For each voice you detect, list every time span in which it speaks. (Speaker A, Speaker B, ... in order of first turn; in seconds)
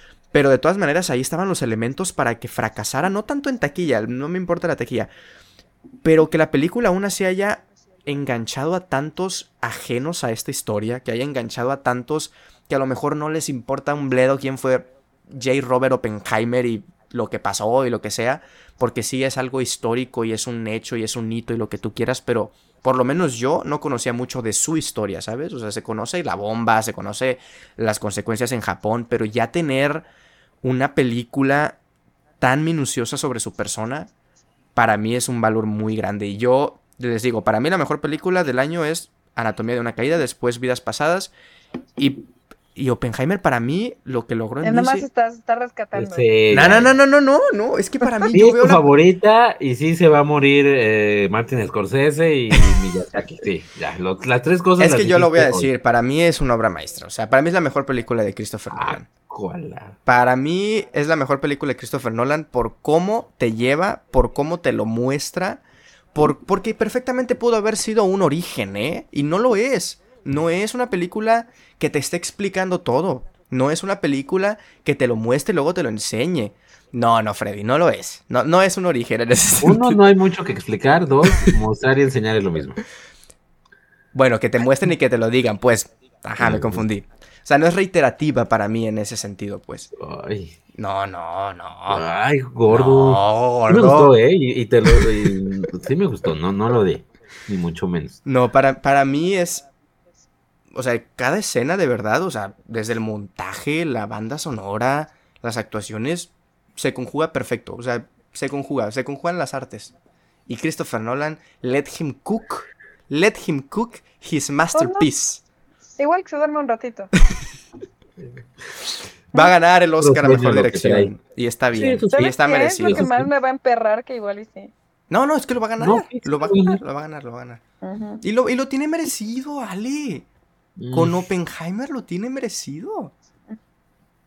Speaker A: 0.3-5.1, 6.0-30.1, 30.6-31.8, 32.4-34.1, 34.8-41.3, 42.0-45.1, 46.5-48.8, 52.5-52.8, 54.8-59.1, 60.0-65.6, 66.1-80.0, 84.1-89.9, 90.7-92.0, 92.7-94.1, 94.9-95.7, 98.2-99.6, 100.7-109.9, 110.5-115.4, 119.3-123.0, 125.1-127.6, 128.2-130.2, 130.9-133.1
Speaker B: 44.6-46.3, 114.7-115.0, 116.0-117.1, 122.1-124.7, 127.8-128.2
Speaker C: 45.9-46.9, 48.3-55.7, 58.7-60.0, 79.6-82.8, 86.4-86.8, 90.0-90.6, 91.9-98.2, 120.0-121.1, 121.7-122.3, 122.8-123.3, 125.8-126.8, 130.8-131.2